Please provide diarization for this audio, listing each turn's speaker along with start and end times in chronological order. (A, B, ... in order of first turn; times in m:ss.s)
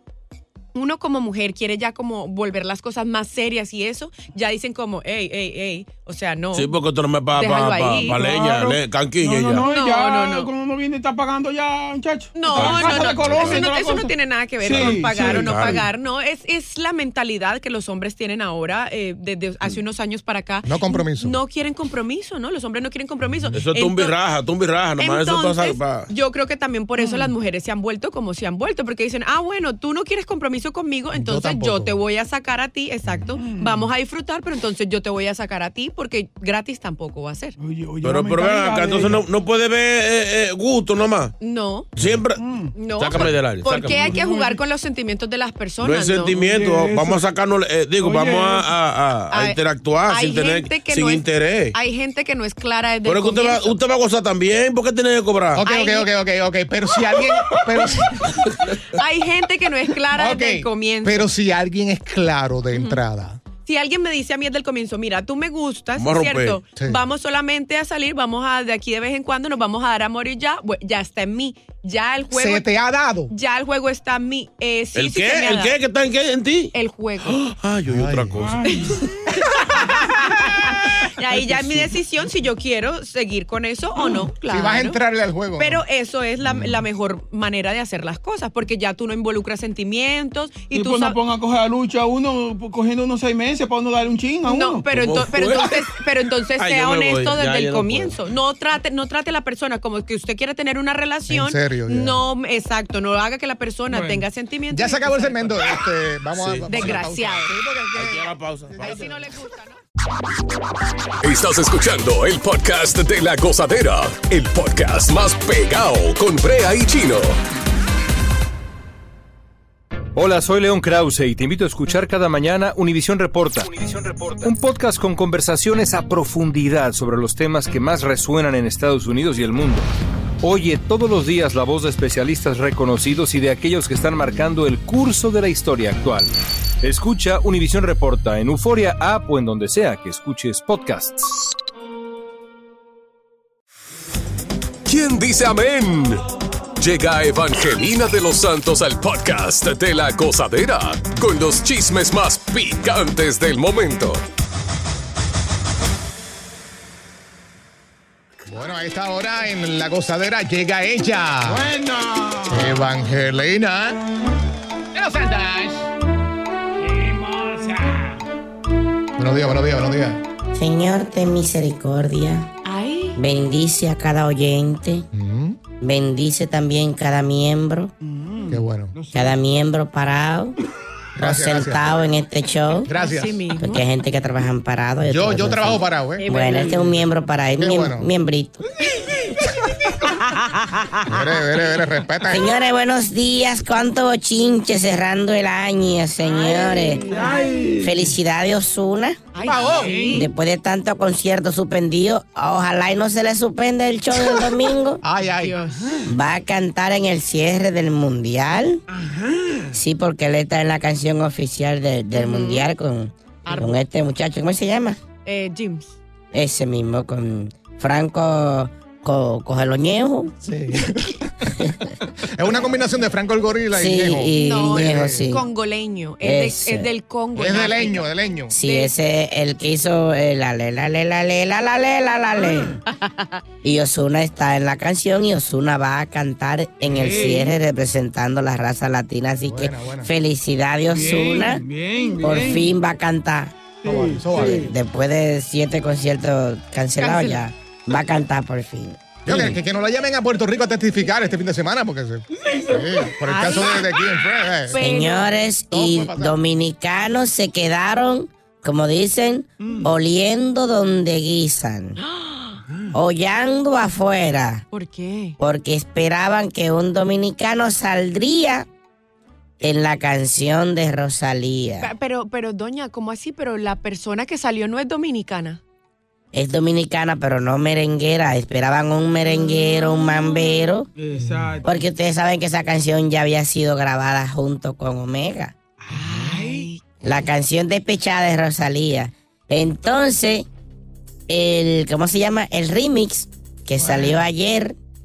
0:00.7-0:06.7 A
0:06.5-0:09.6 B
0:07.3-0:08.2 A
0:08.0-0:15.7 C
0:09.6-0:10.5 A
0:12.3-0:24.2 A
0:12.4-0:13.8 B
0:14.6-0:15.9 B
0:20.6-0:21.4 D
0:23.5-0:26.1 B
0:25.0-0:37.6 A
0:27.0-0:27.3 C
0:31.1-0:32.0 D
0:33.4-0:33.7 C
0:37.6-0:39.3 C
0:38.0-0:41.3 B
0:41.4-0:41.9 A
0:42.0-0:44.1 B
0:42.4-0:44.6 C
0:42.7-0:46.3 A
0:45.8-0:51.8 B
0:46.3-0:47.2 C
0:48.0-0:48.7 C
0:49.3-0:53.8 A
0:53.0-0:55.6 B
0:55.5-0:58.6 D
0:55.6-0:56.1 A
0:57.5-0:57.8 C
0:58.9-1:01.2 A
1:00.1-1:03.4 D
1:02.7-1:03.0 A
1:03.6-1:12.7 A
1:06.0-1:06.6 B
1:12.3-1:13.3 D
1:13.3-1:15.7 A
1:14.9-1:16.7 B
1:16.7-1:17.4 A
1:17.2-1:18.6 B
1:17.8-1:18.4 D
1:18.3-1:19.2 C
1:18.7-1:25.0 A
1:21.4-1:21.8 C
1:24.0-1:24.3 C
1:24.4-1:25.8 D
1:25.6-1:31.2 A
1:26.4-1:26.8 D
1:30.7-1:34.9 C
1:34.4-1:45.8 A
1:34.9-1:35.8 B
1:36.6-1:38.2 B
1:41.3-1:42.2 D
1:43.9-1:44.2 C
1:44.7-1:49.1 D
1:46.3-1:46.7 B
1:46.7-1:47.5 A
1:47.9-1:48.8 B
1:48.7-1:49.1 C
1:48.8-1:49.8 A
1:51.2-1:57.4 E
2:00.1-2:09.9 F
2:10.4-2:16.3 F
2:16.8-2:21.4 F
2:24.8-2:26.2 E
2:26.8-2:34.2 E
2:38.5-2:41.7 D
2:41.4-2:42.8 C
2:42.4-2:44.0 D
2:44.9-2:45.9 D
2:46.8-2:48.2 C
2:49.2-2:50.2 D
2:50.5-2:52.5 G
2:52.6-2:53.2 A
2:53.1-2:55.1 G
2:55.1-2:55.6 D
2:55.8-2:57.9 G
2:58.0-2:59.4 C
2:58.5-2:59.0 D
2:59.1-3:00.6 G
3:01.2-3:02.0 D
3:01.2-3:02.9 G
3:02.8-3:03.5 D
3:02.9-3:03.8 A
3:03.5-3:08.6 G
3:05.0-3:06.2 D
3:06.2-3:06.9 A
3:06.5-3:06.9 C
3:07.6-3:08.1 D
3:08.9-3:09.3 C
3:11.0-3:12.5 D
3:12.2-3:17.2 G
3:16.4-3:18.1 C
3:16.9-3:17.4 A
3:17.8-3:19.2 G
3:19.3-3:20.3 A
3:19.4-3:20.0 D
3:19.4-3:20.2 C
3:20.1-3:25.0 G
3:25.0-3:25.6 D
3:25.4-3:25.9 A
3:25.8-3:26.1 C
3:26.0-3:28.8 G
3:28.9-3:29.8 C
3:29.7-3:35.0 G
3:32.1-3:32.6 A
3:33.4-3:33.8 A
3:35.2-3:36.0 A
3:36.3-3:40.3 G
3:40.4-3:45.3 D
3:43.7-3:45.4 G
3:44.4-3:48.9 A
3:46.2-3:46.9 G
3:47.4-3:48.5 D
3:48.5-3:52.8 G
3:52.4-3:52.8 C
3:52.8-3:53.4 A
3:53.6-4:01.6 G
3:56.8-3:57.5 C
3:59.4-4:00.1 D
4:00.9-4:02.7 C
4:02.2-4:03.5 G
4:03.8-4:04.7 C
4:03.9-4:04.7 D
4:04.3-4:09.6 G
4:07.0-4:07.5 A
4:09.2-4:14.8 D
4:12.3-4:13.2 C
4:13.2-4:14.0 A
4:14.6-4:15.3 A
4:14.8-4:22.0 G
4:15.7-4:16.3 D
4:19.6-4:19.9 C
4:22.0-4:22.6 A
4:22.7-4:22.9 C
4:22.9-4:24.6 G
4:24.7-4:25.4 A
4:25.4-4:28.7 G
4:29.6-4:31.9 G
4:31.8-4:35.6 A
4:36.3-4:40.9 G
4:39.2-4:40.7 A
4:41.0-4:41.7 C
4:41.2-4:41.6 D
4:41.6-4:45.5 G
4:45.8-4:46.7 C
4:45.9-4:47.0 A
4:47.0-4:50.5 G
4:51.3-4:54.8 G
4:53.8-4:54.2 C